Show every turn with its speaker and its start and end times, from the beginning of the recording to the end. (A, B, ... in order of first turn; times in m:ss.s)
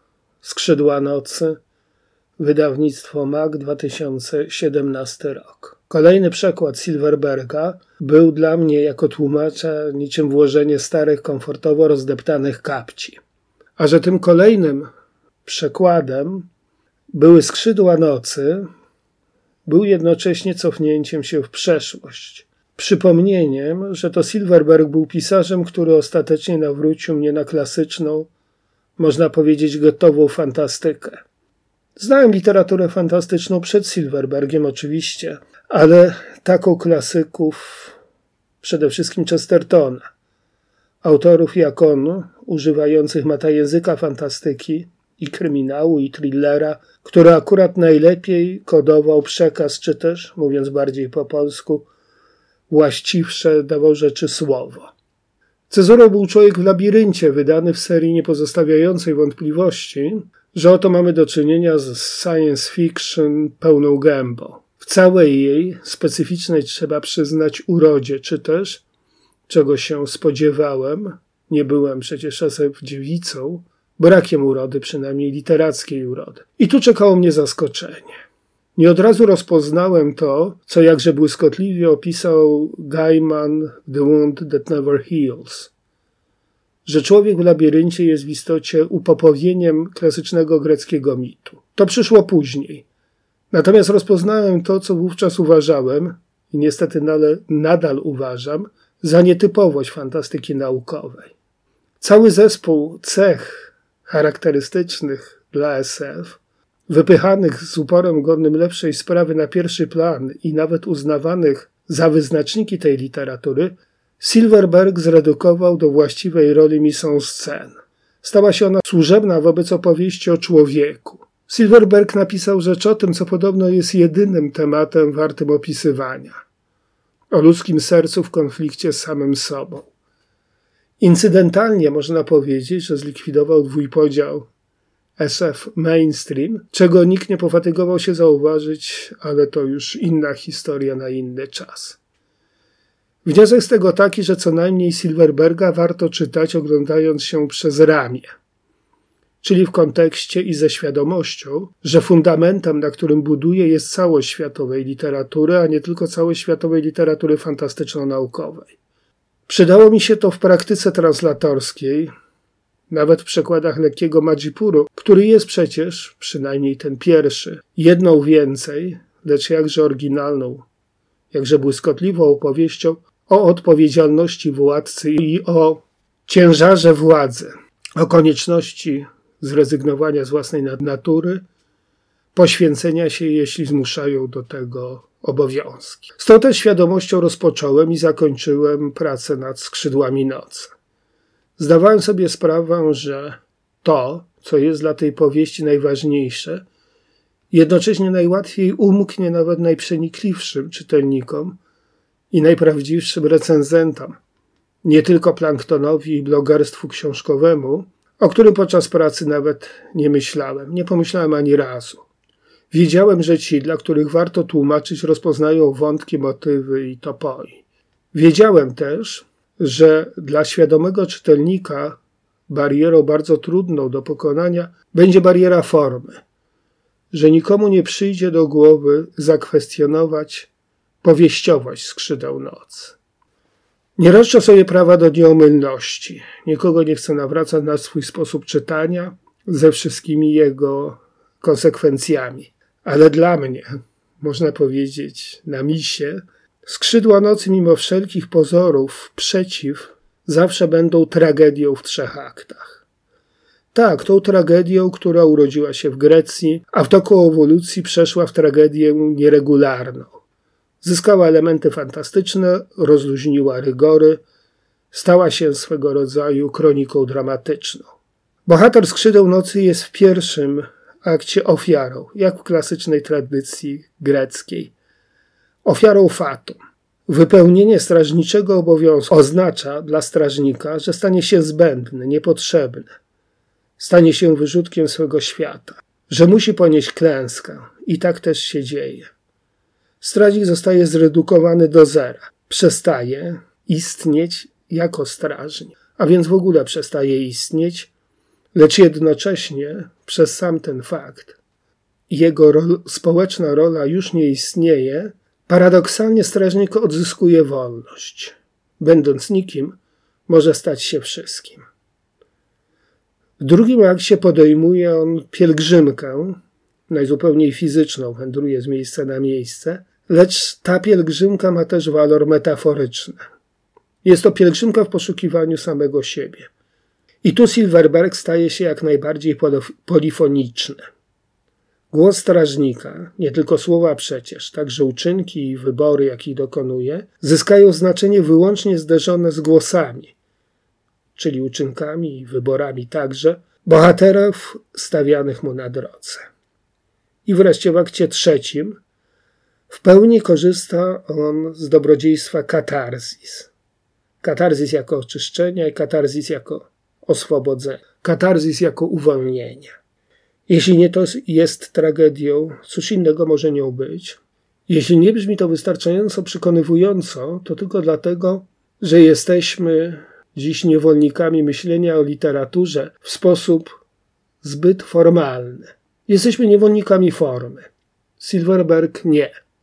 0:00.4-0:01.6 A
0:02.4-0:13.2 A
0:13.8-0:14.9 A
0:15.4-0:16.5 A
0:17.1-0:18.7 A
0:19.6-0:28.3 A
0:29.0-0:31.2 A
0:32.0-0:38.0 A
0:38.6-0:40.1 A
0:41.0-0:51.9 A
0:52.7-0:54.9 A
0:55.7-1:08.8 A
1:09.5-1:18.2 A
1:18.8-1:25.7 A
1:26.8-1:32.8 A
1:33.5-1:41.3 A
1:42.0-2:06.4 A
2:07.3-2:09.9 A
2:11.0-2:14.5 A
2:15.2-2:22.0 A
2:23.2-2:28.3 A
2:29.4-2:38.8 A
2:39.5-2:42.1 A
2:42.9-2:50.6 A
2:51.3-3:01.4 A
3:02.3-3:10.7 A
3:11.6-3:16.6 A
3:17.5-3:21.6 A
3:22.3-3:24.2 A
3:24.8-3:32.1 A
3:32.7-3:46.2 A
3:47.1-3:50.5 A
3:51.0-3:53.0 A
3:54.0-4:12.8 A
4:13.7-4:20.2 A
4:20.8-4:24.2 A
4:24.9-4:27.9 A
4:28.4-4:34.7 A
4:35.6-4:43.0 A
4:43.8-4:49.1 A
4:50.0-4:57.9 A
4:58.5-5:01.4 A
5:02.1-5:11.6 A
5:13.4-5:23.2 A
5:24.0-5:26.5 A
5:27.2-5:30.8 A
5:31.9-5:40.1 A
5:41.1-5:46.3 A
5:47.2-5:48.8 A
5:49.7-5:53.5 A
5:54.2-5:59.7 A
6:00.5-6:13.8 A
6:14.4-6:19.4 A